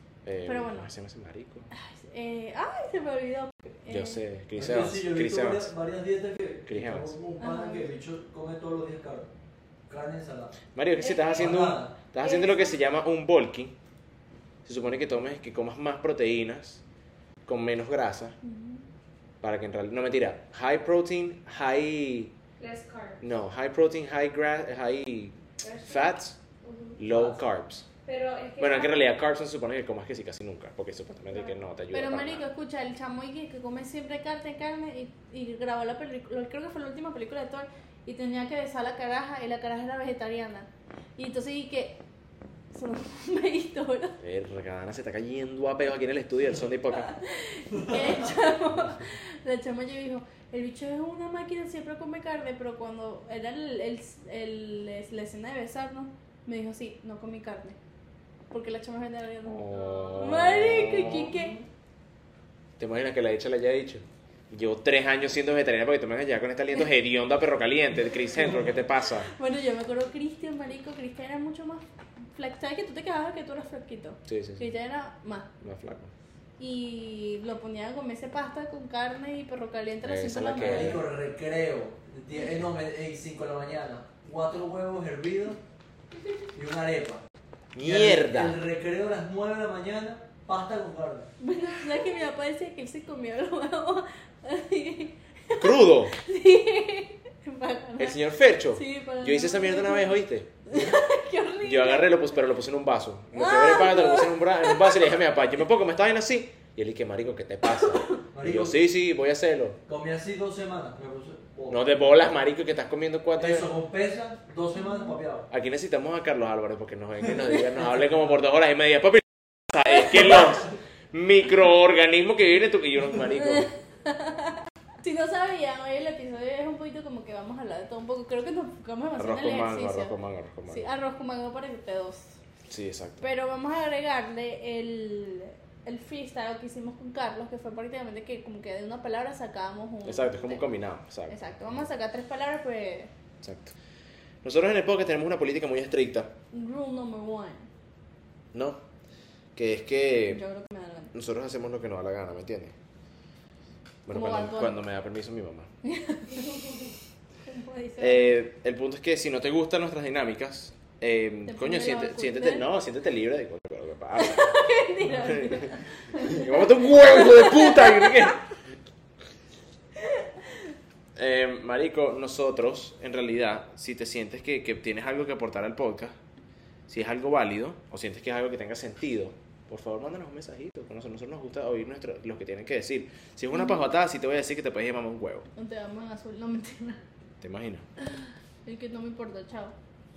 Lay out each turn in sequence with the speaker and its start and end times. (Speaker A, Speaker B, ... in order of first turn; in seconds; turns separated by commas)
Speaker A: 0.2-1.7, Speaker B: 0.5-0.9, Speaker B: 1.7-4.2, Speaker A: 3.9-5.7, Speaker C: 4.6-9.3, Speaker A: 6.7-7.1, Speaker B: 7.4-7.9, Speaker C: 9.9-10.6, Speaker A: 10.8-13.8, Speaker D: 11.0-11.4, Speaker C: 11.3-11.9, Speaker B: 12.2-12.7, Speaker A: 14.7-16.8, Speaker A: 17.5-18.4, Speaker B: 18.4-18.8, Speaker A: 19.4-22.3, Speaker D: 22.6-23.2, Speaker A: 23.2-26.4, Speaker D: 25.6-27.0, Speaker A: 27.0-27.9, Speaker C: 27.1-27.4, Speaker D: 28.1-29.1, Speaker A: 28.6-32.5, Speaker B: 31.9-42.0, Speaker B: 42.7-44.2, Speaker A: 44.2-47.1, Speaker B: 46.9-57.8, Speaker B: 58.5-61.6, Speaker A: 59.5-61.5, Speaker A: 62.8-69.3, Speaker B: 69.2-75.5, Speaker A: 74.3-74.7, Speaker A: 75.6-76.1, Speaker B: 76.6-81.0, Speaker A: 80.0-81.0, Speaker C: 80.6-85.6, Speaker C: 86.5-87.2, Speaker A: 87.7-88.6, Speaker C: 87.8-91.3, Speaker B: 91.4-102.2, Speaker A: 95.6-96.2, Speaker A: 98.0-100.5, Speaker C: 100.7-101.0, Speaker A: 101.6-109.8, Speaker B: 103.3-105.2, Speaker B: 107.7-108.2, Speaker C: 108.3-108.8, Speaker C: 109.9-112.0, Speaker A: 111.7-113.7, Speaker C: 113.4-115.5, Speaker B: 114.8-115.2, Speaker A: 115.5-123.7, Speaker B: 120.0-120.4, Speaker B: 123.3-130.2, Speaker A: 129.2-130.9, Speaker B: 130.7-132.4, Speaker A: 132.7-133.2, Speaker B: 133.2-140.7, Speaker A: 140.0-141.8, Speaker B: 141.3-143.1, Speaker A: 143.4-143.7, Speaker A: 144.4-146.3, Speaker B: 146.5-147.7, Speaker A: 148.5-148.8, Speaker A: 149.6-150.4, Speaker B: 150.3-151.1, Speaker A: 151.1-152.8, Speaker A: 154.1-155.7, Speaker B: 154.1-154.9, Speaker B: 155.8-156.7, Speaker B: 157.4-158.4, Speaker A: 158.0-168.4, Speaker B: 161.5-162.7, Speaker B: 164.2-168.4, Speaker B: 170.0-170.3, Speaker A: 171.2-176.2, Speaker A: 176.9-185.5, Speaker B: 185.6-187.0, Speaker A: 187.4-187.9, Speaker B: 188.0-189.8